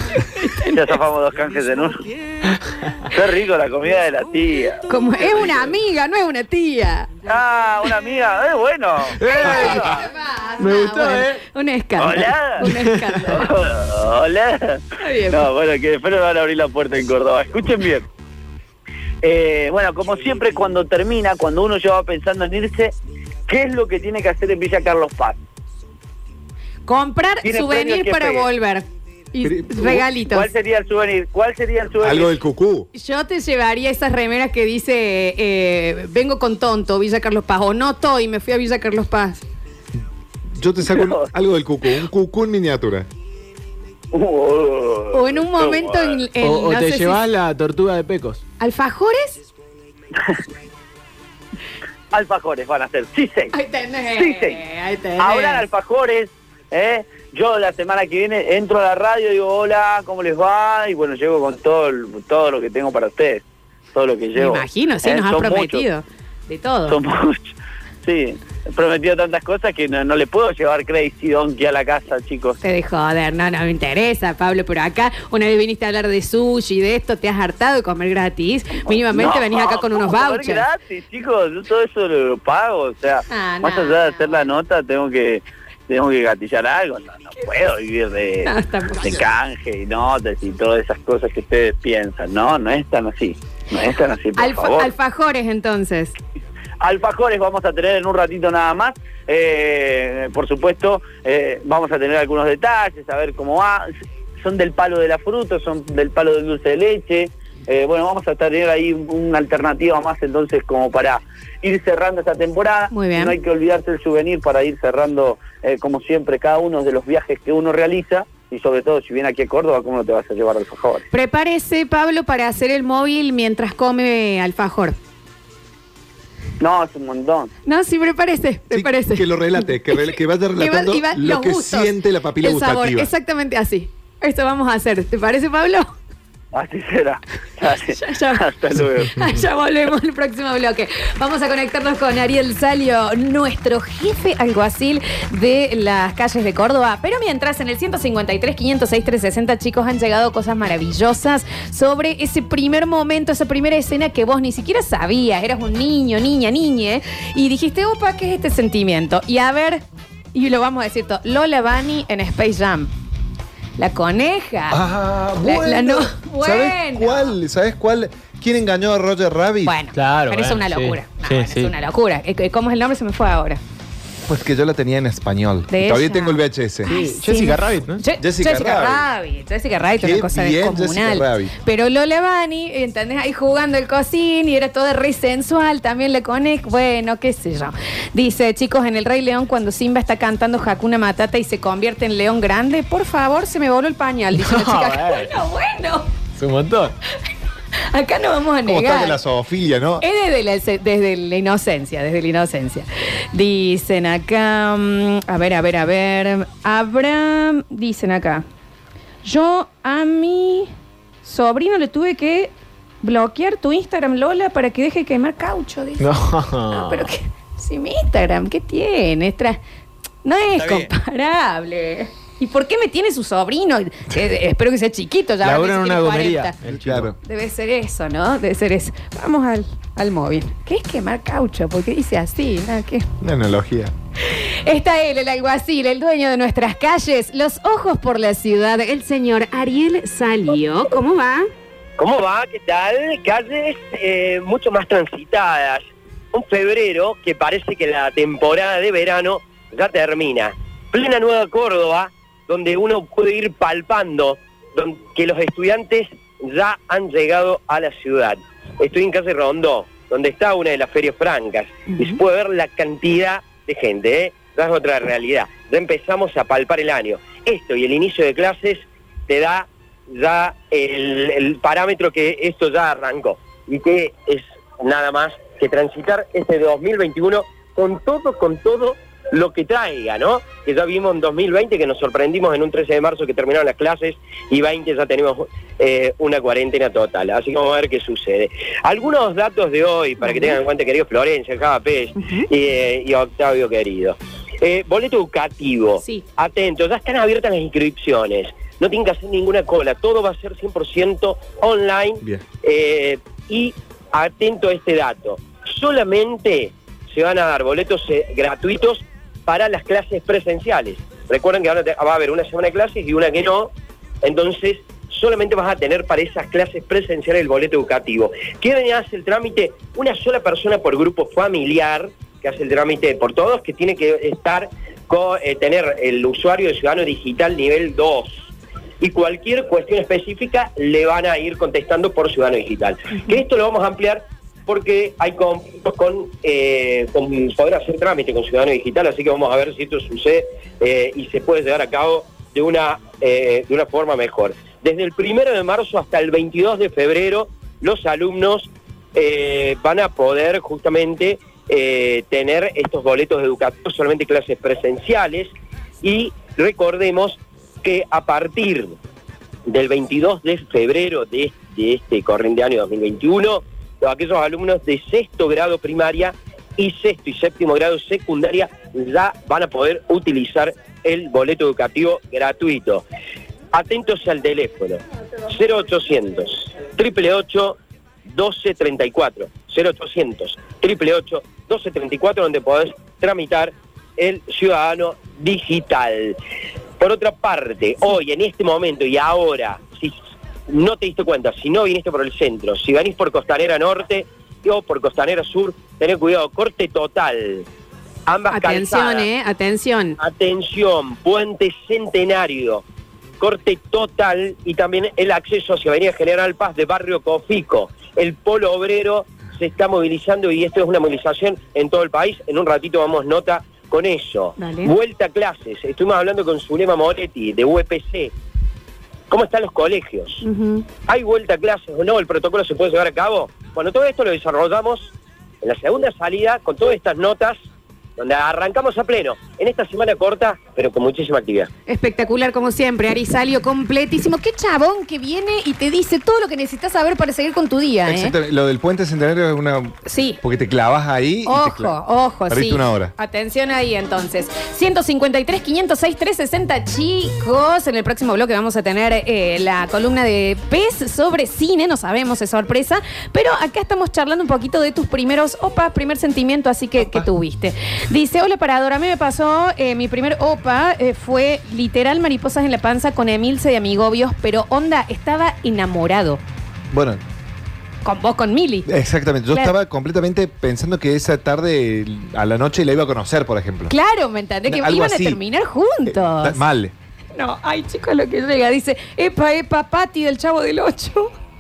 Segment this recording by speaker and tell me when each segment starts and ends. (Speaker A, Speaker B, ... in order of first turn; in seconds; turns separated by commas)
Speaker A: 0.2-0.9, Speaker B: 0.7-2.0, Speaker B: 3.1-4.9, Speaker A: 4.9-7.1, Speaker B: 7.3-10.0, Speaker C: 9.2-9.9, Speaker A: 9.2-13.5, Speaker C: 10.6-11.4, Speaker B: 12.0-12.7, Speaker C: 12.6-12.9, Speaker B: 13.3-18.1, Speaker A: 15.0-15.5, Speaker B: 19.2-22.9, Speaker B: 23.5-25.4, Speaker A: 26.9-30.5, Speaker B: 27.4-28.5, Speaker D: 29.4-30.0, Speaker B: 29.8-32.3, Speaker D: 32.0-32.9, Speaker A: 32.9-39.4, Speaker D: 40.6-43.1, Speaker B: 40.9-41.3, Speaker B: 44.1-46.2, Speaker A: 45.1-47.2, Speaker C: 46.4-48.4, Speaker A: 48.6-49.4, Speaker B: 52.1-53.5, Speaker A: 53.5-55.6, Speaker B: 54.1-54.6, Speaker B: 55.2-65.8, Speaker A: 64.4-67.0, Speaker B: 66.9-67.5, Speaker B: 68.0-72.6, Speaker A: 72.6-80.6, Speaker B: 78.8-94.9, Speaker A: 83.3-84.5, Speaker A: 88.4-89.2, Speaker A: 94.4-96.1, Speaker B: 96.8-103.9, Speaker B: 104.4-121.0, Speaker A: 112.9-113.3, Speaker A: 121.1-125.0, Speaker B: 126.6-127.5, Speaker A: 127.7-129.7, Speaker D: 128.7-133.1, Speaker A: 130.6-135.9, Speaker B: 136.5-139.2, Speaker A: 137.9-138.4, Speaker A: 139.2-162.9, Speaker A: 163.8-164.8, Speaker D: 164.7-169.8, Speaker A: 165.4-167.3, Speaker A: 169.7-173.6, Speaker C: 169.9-171.7, Speaker D: 174.3-176.9, Speaker A: 175.7-196.1, Speaker C: 176.9-178.0, Speaker D: 178.2-179.1, Speaker D: 180.0-181.5, Speaker C: 194.4-195.3, Speaker C: 196.4-196.9, Speaker A: 197.9-199.2, Speaker D: 198.7-200.0, Speaker A: 200.0-208.4, Speaker A: 209.2-210.7, Speaker A: 211.2-216.1, Speaker C: 216.0-217.1, Speaker A: 216.7-219.6, Speaker A: 220.2-226.6, Speaker C: 225.4-227.1, Speaker D: 226.7-227.2, Speaker A: 227.2-233.1, Speaker D: 233.2-233.9, Speaker A: 234.3-241.5, Speaker E: 242.0-313.7, Speaker A: 261.9-262.2, Speaker A: 290.2-290.6, Speaker E: 314.2-359.0, Speaker E: 359.7-373.1, Speaker E: 373.7-386.4, Speaker E: 387.0-390.1, Speaker E: 390.7-397.7, Speaker E: 398.3-399.3, Speaker A: 398.5-400.2, Speaker E: 400.2-402.8, Speaker E: 403.4-418.3, Speaker A: 414.6-414.9, Speaker E: 419.3-420.4, Speaker A: 420.4-420.9, Speaker E: 421.0-427.6, Speaker E: 428.2-431.7, Speaker A: 431.9-438.3, Speaker D: 438.1-442.0, Speaker A: 440.1-440.4, Speaker A: 441.5-466.4, Speaker D: 442.5-443.1, Speaker D: 457.0-457.3, Speaker D: 466.9-467.2, Speaker A: 468.0-468.9, Speaker D: 468.9-473.9, Speaker A: 473.9-476.6, Speaker D: 474.7-475.4, Speaker D: 476.1-476.9, Speaker A: 477.3-481.3